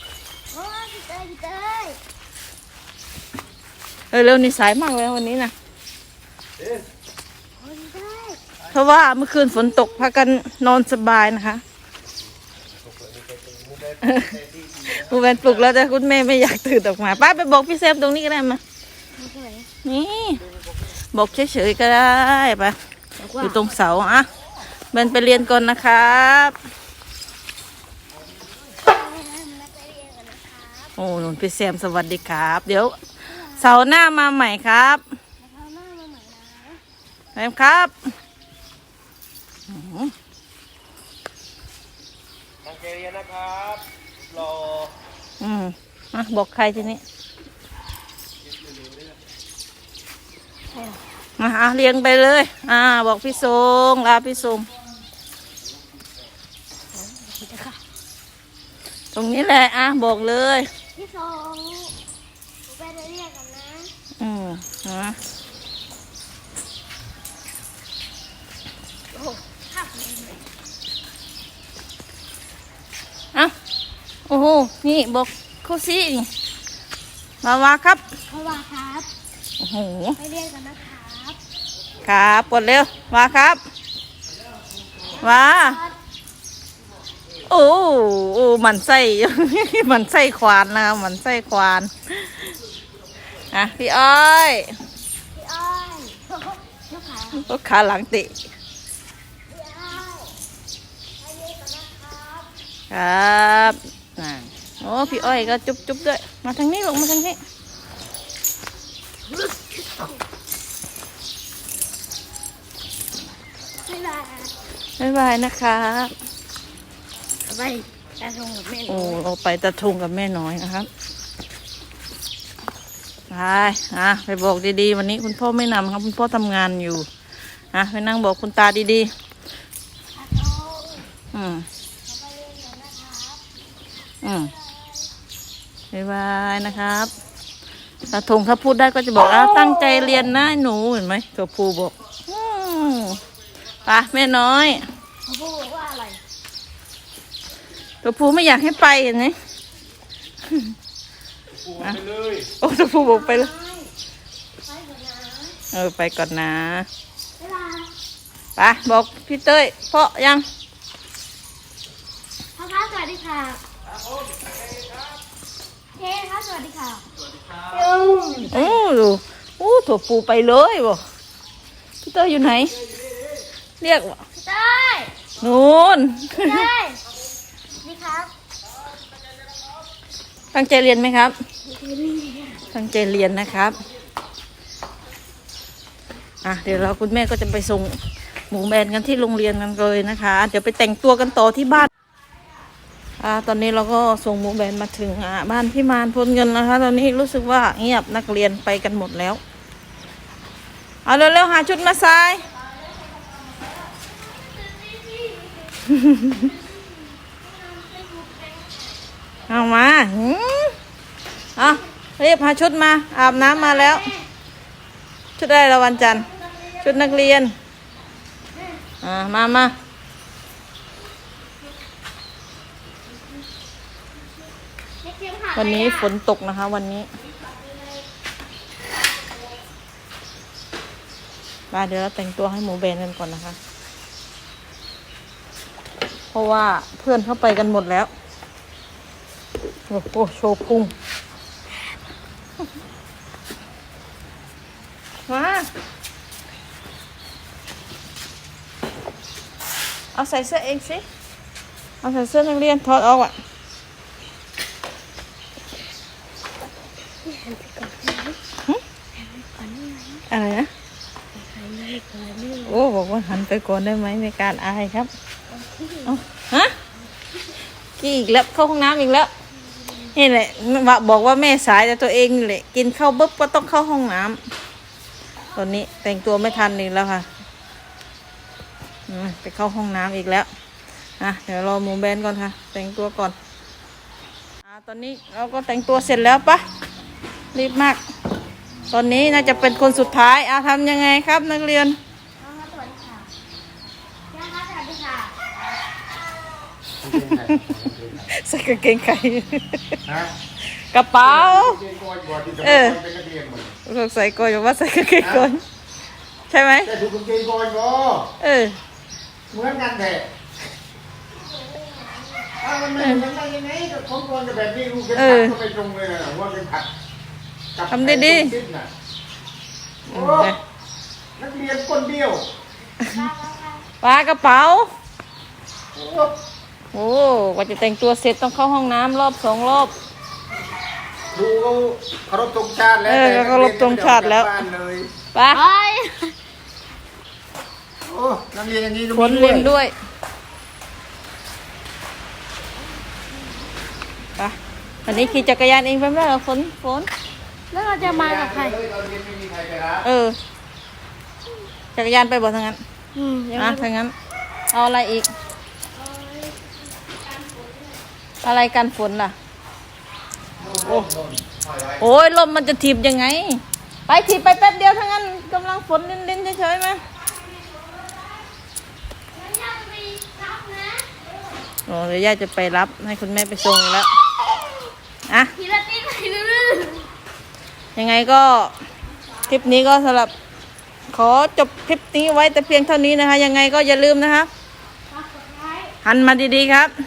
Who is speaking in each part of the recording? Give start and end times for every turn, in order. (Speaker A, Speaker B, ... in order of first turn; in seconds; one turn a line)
Speaker A: 0.5-2.0
Speaker B: 4.1-5.5
Speaker C: 6.6-6.9
Speaker A: 7.6-8.4
Speaker B: 8.7-11.6
Speaker C: 12.7-15.5
Speaker B: 14.0-14.4
Speaker B: 14.9-18.6
Speaker A: 19.2-19.7
Speaker B: 19.8-20.4
Speaker B: 21.1-22.8
Speaker A: 23.2-23.7
Speaker B: 23.4-24.3
Speaker B: 24.9-26.6
Speaker A: 28.8-30.9
Speaker B: 31.0-33.0
Speaker A: 33.3-33.7
Speaker B: 33.6-35.0
Speaker A: 35.4-36.8
Speaker B: 37.4-37.9
Speaker B: 39.7-40.1
Speaker C: 42.6-44.9
Speaker B: 45.4-47.0
Speaker B: 51.4-54.7
Speaker A: 56.9-57.8
Speaker B: 59.1-60.7
Speaker A: 61.0-62.0
Speaker A: 62.7-63.9
Speaker B: 64.2-65.2
Speaker A: 69.1-70.4
Speaker B: 74.3-76.3
Speaker B: 77.4-78.0
Speaker A: 78.3-79.1
Speaker B: 79.6-80.2
Speaker A: 80.2-81.4
Speaker B: 82.0-83.6
Speaker A: 85.1-86.0
Speaker B: 85.2-85.8
Speaker B: 87.5-92.5
Speaker B: 93.5-94.7
Speaker A: 95.3-97.5
Speaker B: 97.3-98.4
Speaker A: 99.5-100.3
Speaker A: 101.2-102.5
Speaker B: 102.9-107.4
Speaker A: 105.0-105.6
Speaker A: 109.3-110.2
Speaker A: 113.8-114.5
Speaker B: 115.0-116.1
Speaker A: 117.5-119.2
Speaker B: 118.9-120.9
Speaker B: 123.3-127.1
Speaker B: 127.7-129.1
Speaker A: 130.2-131.1
Speaker B: 131.3-131.7
Speaker A: 132.1-133.4
Speaker B: 134.2-134.5
Speaker B: 135.9-137.1
Speaker B: 138.1-143.2
Speaker B: 143.9-144.9
Speaker A: 145.3-146.2
Speaker B: 148.0-149.3
Speaker C: 152.0-152.4
Speaker B: 152.6-153.5
Speaker A: 152.9-153.9
Speaker A: 154.6-155.6
Speaker B: 155.7-156.9
Speaker A: 157.4-157.9
Speaker B: 158.6-160.4
Speaker A: 162.6-163.6
Speaker A: 166.0-167.0
Speaker A: 167.6-168.8
Speaker B: 168.4-171.0
Speaker B: 172.0-172.8
Speaker B: 173.8-174.2
Speaker A: 174.4-175.1
Speaker B: 175.4-176.7
Speaker A: 176.3-177.0
Speaker A: 177.8-178.3
Speaker B: 180.5-181.3
Speaker A: 181.7-182.6
Speaker B: 182.7-183.8
Speaker B: 186.4-188.0
Speaker B: 188.5-191.9
Speaker B: 193.2-199.4
Speaker B: 201.1-202.4
Speaker A: 202.6-209.0
Speaker B: 205.9-206.5
Speaker B: 209.5-210.8
Speaker B: 211.6-214.1
Speaker A: 213.2-214.3
Speaker B: 215.4-217.5
Speaker A: 218.5-218.8
Speaker B: 219.0-219.7
Speaker A: 225.0-226.1
Speaker B: 225.6-227.1
Speaker B: 231.7-233.6
Speaker B: 236.3-238.1
Speaker B: 239.9-240.9
Speaker B: 245.3-245.7
Speaker B: 250.1-251.0
Speaker B: 252.0-253.3
Speaker A: 257.2-258.4
Speaker A: 259.2-260.3
Speaker B: 260.3-260.7
Speaker A: 261.4-262.8
Speaker B: 262.6-265.1
Speaker A: 265.5-266.2
Speaker B: 266.1-266.8
Speaker B: 268.0-269.3
Speaker B: 270.1-274.4
Speaker B: 275.6-277.3
Speaker B: 279.1-280.5
Speaker B: 281.2-283.4
Speaker B: 284.6-286.6
Speaker B: 287.5-288.0
Speaker B: 288.9-292.0
Speaker A: 292.4-293.3
Speaker A: 294.3-295.4
Speaker D: 297.0-298.3
Speaker B: 297.3-297.7
Speaker B: 298.3-300.0
Speaker D: 300.1-300.3
Speaker B: 300.9-301.8
Speaker D: 301.2-303.8
Speaker B: 302.6-303.0
Speaker B: 303.9-305.6
Speaker D: 305.2-305.5
Speaker B: 306.5-306.9
Speaker D: 306.9-308.3
Speaker B: 308.4-308.8
Speaker D: 309.5-310.3
Speaker A: 311.4-312.5
Speaker D: 312.6-316.9
Speaker B: 313.0-313.3
Speaker B: 315.1-315.6
Speaker D: 317.8-318.9
Speaker B: 317.9-318.6
Speaker D: 320.1-320.5
Speaker B: 320.1-320.6
Speaker D: 321.4-322.4
Speaker A: 323.0-323.9
Speaker B: 324.0-324.9
Speaker D: 325.9-326.3
Speaker B: 326.9-329.9
Speaker D: 331.3-335.1
Speaker B: 333.1-334.5
Speaker B: 335.3-335.6
Speaker A: 335.5-336.4
Speaker D: 338.1-339.7
Speaker B: 339.1-339.9
Speaker B: 344.4-347.1
Speaker A: 345.1-345.5
Speaker A: 347.7-348.8
Speaker D: 348.0-350.1
Speaker B: 350.0-350.4
Speaker B: 351.9-352.8
Speaker A: 353.2-353.9
Speaker B: 353.5-354.1
Speaker B: 354.7-355.3
Speaker A: 355.9-357.9
Speaker B: 358.4-359.3
Speaker D: 360.6-361.6
Speaker B: 362.0-367.0
Speaker A: 367.4-368.4
Speaker A: 369.3-371.3
Speaker B: 371.9-374.1
Speaker A: 375.5-377.1
Speaker B: 377.9-378.8
Speaker B: 379.5-380.3
Speaker B: 381.1-384.5
Speaker A: 385.1-385.9
Speaker B: 386.0-386.9